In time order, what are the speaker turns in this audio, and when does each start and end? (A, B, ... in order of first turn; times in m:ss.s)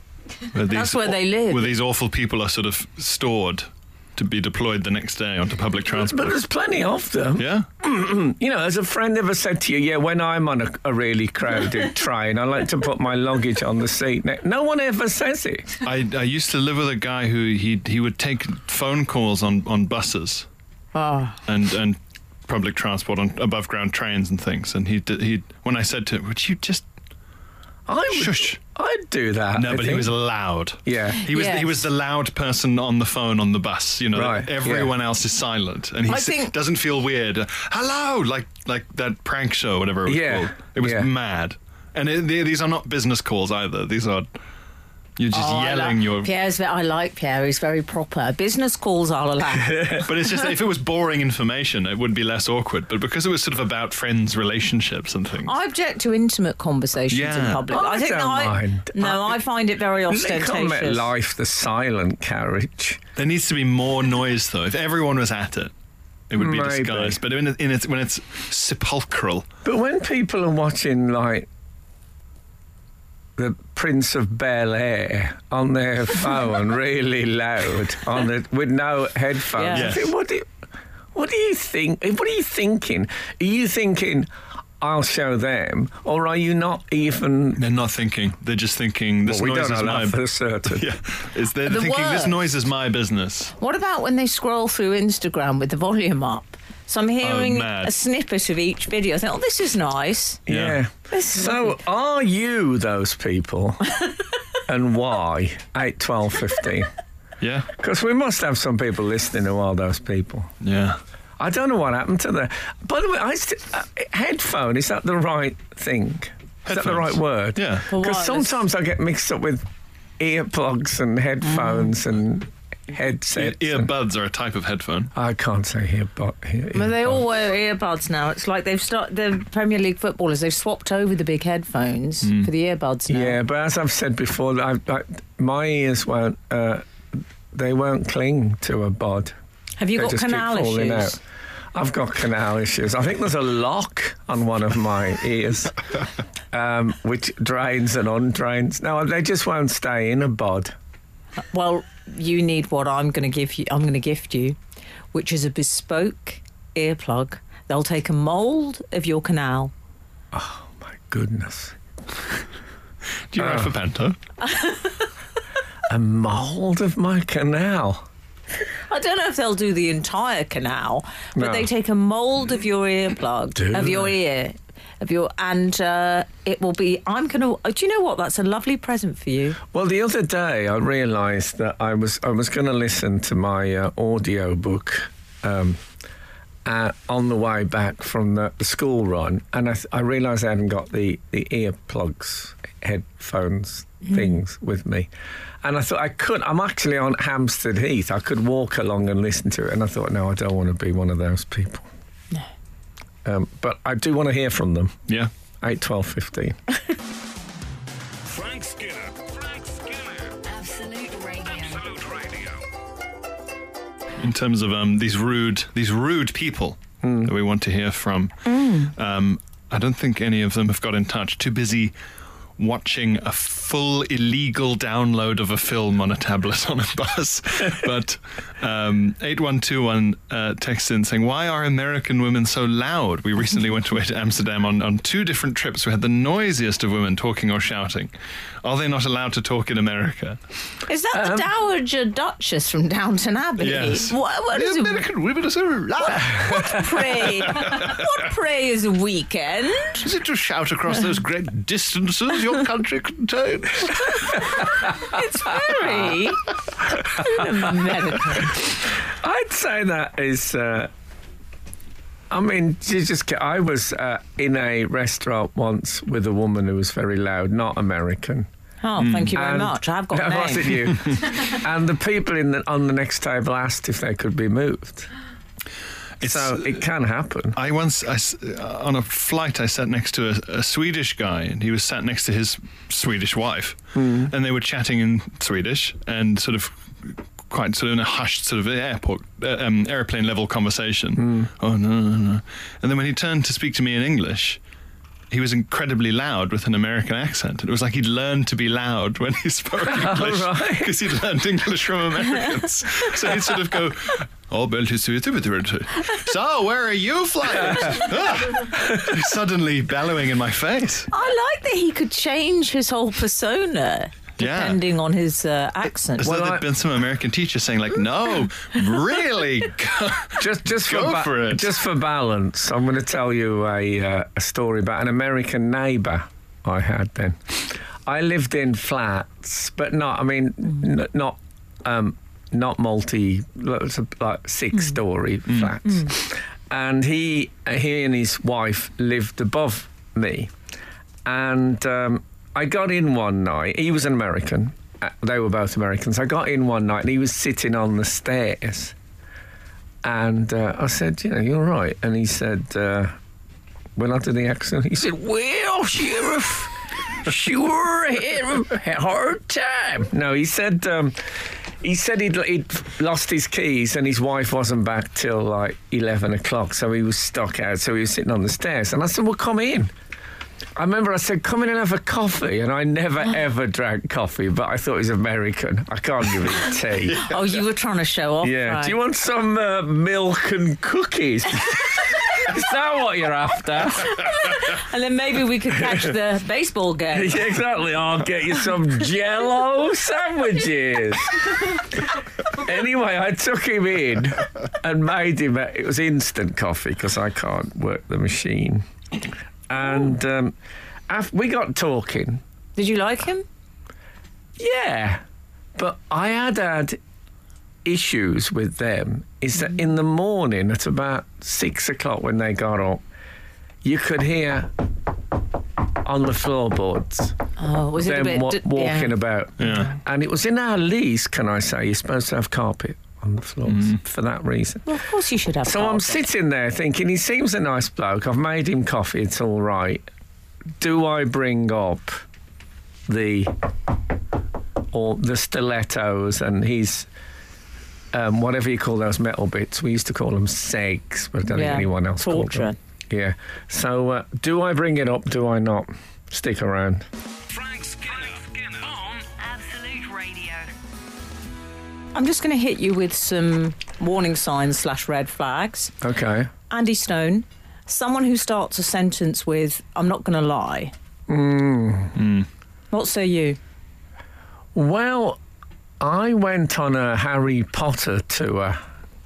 0:00.5-0:06.3 A
0:00.7-0:01.7 B
0:05.9-0:15.8 C
0:07.4-0:07.7 A
0:15.8-0:20.5 A
0:20.9-0:21.4 B
0:21.5-0:26.8 A
0:27.9-0:30.1 C
0:28.1-0:28.6 A
0:29.5-0:44.3 A
0:30.8-0:31.2 C
0:31.3-0:31.8 B
0:34.1-0:34.9 C
0:36.1-0:36.5 B
0:40.1-0:41.1 C
0:45.2-0:46.3 A
0:45.3-0:50.0 B
0:49.6-0:50.0 C
0:50.0-0:55.5 A
0:55.4-1:01.1 B
0:57.1-0:57.6 A
0:57.7-0:59.4 C
1:00.1-1:03.0 C
1:03.2-1:05.7 A
1:06.3-1:09.5 A
1:06.4-1:07.2 C
1:09.6-1:11.5 C
1:13.4-1:20.5 C
1:19.6-1:19.9 B
1:19.7-1:20.1 A
1:21.1-1:24.3 C
1:24.8-1:27.6 C
1:27.6-1:33.6 A
1:29.2-1:30.9 C
1:31.6-1:32.4 B
1:33.6-1:40.4 B
1:37.2-1:37.9 A
1:40.5-1:44.0 C
1:40.5-1:40.8 A
1:41.1-1:41.8 B
1:44.7-1:46.9 C
1:47.4-1:47.7 A
1:47.7-1:50.5 C
1:50.6-1:51.0 A
1:51.4-1:59.7 C
1:56.7-1:57.9 A
1:57.9-1:58.6 B
2:00.2-2:03.9 C
2:01.5-2:01.9 B
2:03.3-2:05.1 A
2:05.1-2:07.2 C
2:06.7-2:13.4 B
2:12.2-2:12.5 A
2:13.1-2:19.4 C
2:19.8-2:21.2 B
2:20.0-2:21.2 C
2:21.7-2:25.8 C
2:26.5-2:30.7 C
2:31.5-2:34.6 B
2:35.1-2:39.7 B
2:40.3-2:41.8 C
2:43.3-2:44.2 A
2:43.4-2:43.8 C
2:44.4-2:45.0 B
2:45.9-2:48.1 C
2:48.9-2:59.6 B
2:51.4-2:51.7 C
2:53.6-2:54.1 C
2:59.7-3:05.8 C
3:06.6-3:15.1 C
3:15.6-3:21.9 C
3:23.2-3:25.0 C
3:25.6-3:26.6 C
3:28.3-3:30.4 D
3:30.4-3:31.9 E
3:31.5-3:32.7 D
3:34.2-3:41.9 A
3:37.0-3:37.3 C
3:38.5-3:38.9 B
3:42.6-3:58.1 A
3:58.6-4:00.4 A
4:00.9-4:05.0 B
4:01.2-4:01.5 C
4:03.6-4:08.0 A
4:06.1-4:10.0 B
4:10.0-4:14.5 A
4:14.8-4:16.5 B
4:17.0-4:18.6 B
4:18.4-4:20.9 C
4:22.3-4:28.5 C
4:28.8-4:30.9 B
4:29.0-4:29.3 A
4:29.3-4:35.1 C
4:36.2-4:37.6 C
4:36.2-4:36.8 A
4:37.6-4:54.6 A
4:44.0-4:44.3 C
4:51.2-4:51.5 C
4:55.3-5:11.1 A
4:59.8-5:01.0 C
5:08.7-5:09.1 C
5:11.1-5:16.3 B
5:14.4-5:14.8 A
5:16.2-5:21.7 A
5:16.2-5:16.6 C
5:20.4-5:40.5 C
5:35.5-5:35.7 A
5:41.2-5:49.0 C
5:50.0-5:53.2 C
5:54.0-6:09.9 C
6:10.8-6:17.3 C
6:17.1-6:19.0 B
6:18.4-6:24.2 C
6:24.1-6:27.5 B
6:27.1-6:38.8 C
6:39.7-6:40.6 C
6:41.1-6:42.4 C
6:42.8-6:43.4 B
6:44.6-6:45.2 C
6:45.8-6:47.0 C
6:47.8-6:53.0 C
6:53.8-6:54.7 C
6:56.0-6:57.4 C
6:57.6-6:59.2 B
6:58.0-7:04.9 C
6:59.6-6:59.9 A
7:03.7-7:04.0 A
7:04.9-7:06.2 B
7:05.6-7:10.0 C
7:10.8-7:12.2 C
7:13.1-7:13.6 C
7:14.9-7:17.1 C
7:18.1-7:27.1 C
7:21.5-7:22.8 B
7:27.5-7:29.3 D
7:29.4-7:30.7 E
7:32.1-7:35.9 B
7:36.0-7:36.5 C
7:36.7-7:40.9 B
7:41.3-7:42.2 C
7:42.2-7:42.5 A
7:42.9-7:43.6 B
7:44.8-7:45.4 C
7:46.0-7:48.8 C